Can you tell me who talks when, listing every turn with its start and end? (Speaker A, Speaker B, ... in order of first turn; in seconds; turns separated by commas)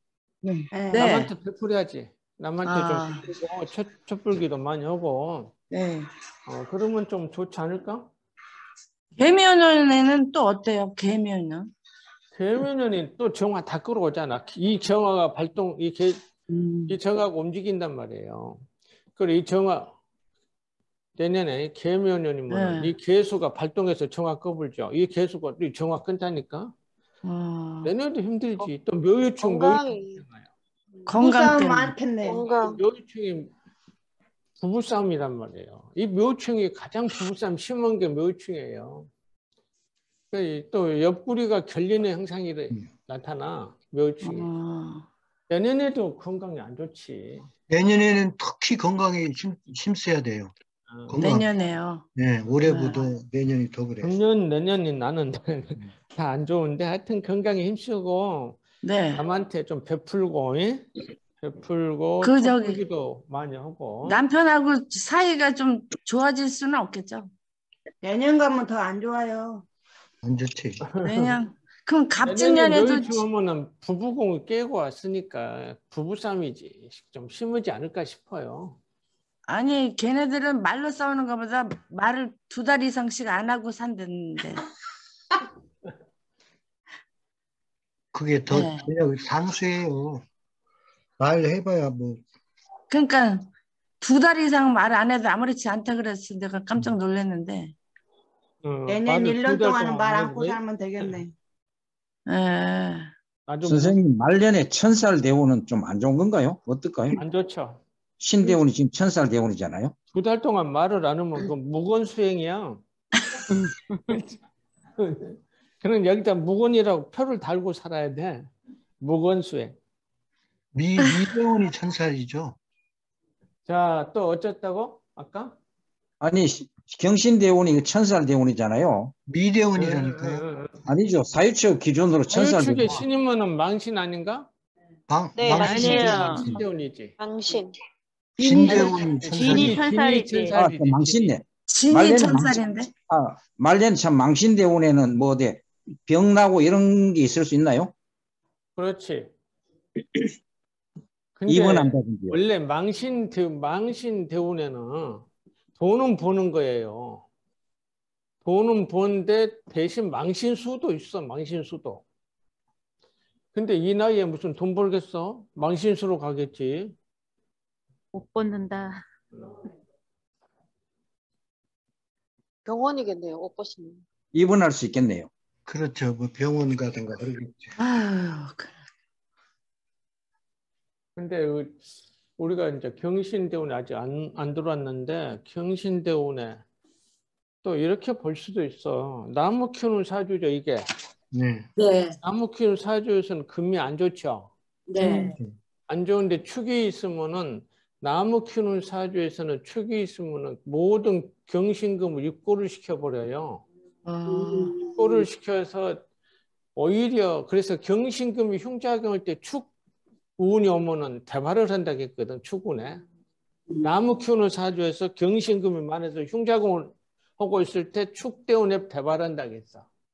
Speaker A: 0.4-1.3, Speaker B: 0.7-1.2, Speaker C: 0.9-5.5, Speaker A: 2.6-3.2, Speaker A: 5.7-6.1, Speaker C: 6.5-8.1, Speaker A: 9.2-11.7, Speaker C: 12.3-16.2, Speaker A: 16.5-17.0, Speaker C: 16.9-18.6, Speaker C: 19.2-19.9, Speaker C: 21.2-26.7, Speaker A: 22.5-22.9, Speaker A: 27.2-27.9, Speaker C: 27.8-30.5, Speaker D: 29.4-30.2, Speaker A: 31.1-31.9, Speaker B: 31.1-32.5, Speaker D: 32.2-32.8, Speaker C: 32.7-33.5, Speaker C: 34.6-39.1, Speaker C: 40.3-44.5, Speaker A: 44.2-45.1, Speaker C: 45.5-47.5, Speaker E: 47.7-50.5, Speaker C: 50.9-51.2, Speaker E: 51.1-51.5, Speaker A: 51.2-52.1, Speaker E: 52.1-54.1, Speaker A: 52.6-53.0, Speaker C: 54.0-58.6, Speaker A: 58.8-59.2, Speaker C: 59.1-60.9, Speaker C: 61.4-64.2, Speaker A: 62.2-62.8, Speaker A: 64.0-67.3, Speaker B: 68.0-69.7, Speaker E: 70.2-70.8, Speaker C: 70.9-71.3, Speaker A: 71.0-73.2, Speaker C: 72.2-78.8, Speaker A: 79.5-84.7, Speaker E: 88.1-90.2, Speaker A: 88.5-88.9, Speaker E: 91.2-92.2, Speaker A: 92.9-93.5, Speaker A: 94.0-97.8, Speaker C: 98.6-101.2, Speaker B: 98.9-101.3, Speaker A: 102.3-103.1, Speaker C: 103.5-104.0, Speaker F: 103.6-107.2, Speaker C: 107.2-107.8, Speaker F: 108.2-109.9, Speaker C: 110.1-112.8, Speaker G: 113.5-114.2, Speaker C: 115.0-118.5, Speaker C: 119.0-119.8, Speaker E: 120.7-122.6, Speaker C: 123.7-125.6, Speaker F: 126.2-129.1, Speaker E: 129.3-130.4, Speaker C: 129.8-130.8, Speaker F: 130.9-133.1, Speaker C: 132.3-134.5, Speaker E: 135.1-136.6, Speaker D: 135.4-136.3, Speaker G: 135.5-136.5, Speaker C: 135.5-137.2, Speaker D: 137.2-137.8, Speaker E: 138.4-139.8, Speaker A: 138.4-138.9, Speaker G: 138.7-140.6, Speaker C: 138.7-141.4, Speaker F: 140.5-147.9, Speaker A: 141.7-142.9, Speaker C: 148.8-149.3, Speaker C: 151.4-155.3, Speaker F: 151.5-152.4, Speaker C: 155.8-157.3, Speaker C: 158.4-162.0, Speaker C: 163.5-166.9, Speaker G: 168.1-169.0, Speaker D: 172.7-174.0, Speaker F: 174.3-175.3, Speaker E: 175.7-177.7, Speaker A: 177.8-178.8, Speaker C: 181.2-186.6, Speaker C: 187.6-190.9, Speaker E: 191.3-191.7, Speaker A: 191.8-192.2, Speaker C: 192.2-194.5, Speaker G: 194.9-195.3, Speaker A: 195.0-195.3, Speaker C: 195.9-203.7, Speaker A: 204.1-204.8, Speaker C: 204.9-206.0, Speaker C: 206.8-209.7, Speaker C: 210.4-213.0, Speaker C: 213.8-219.9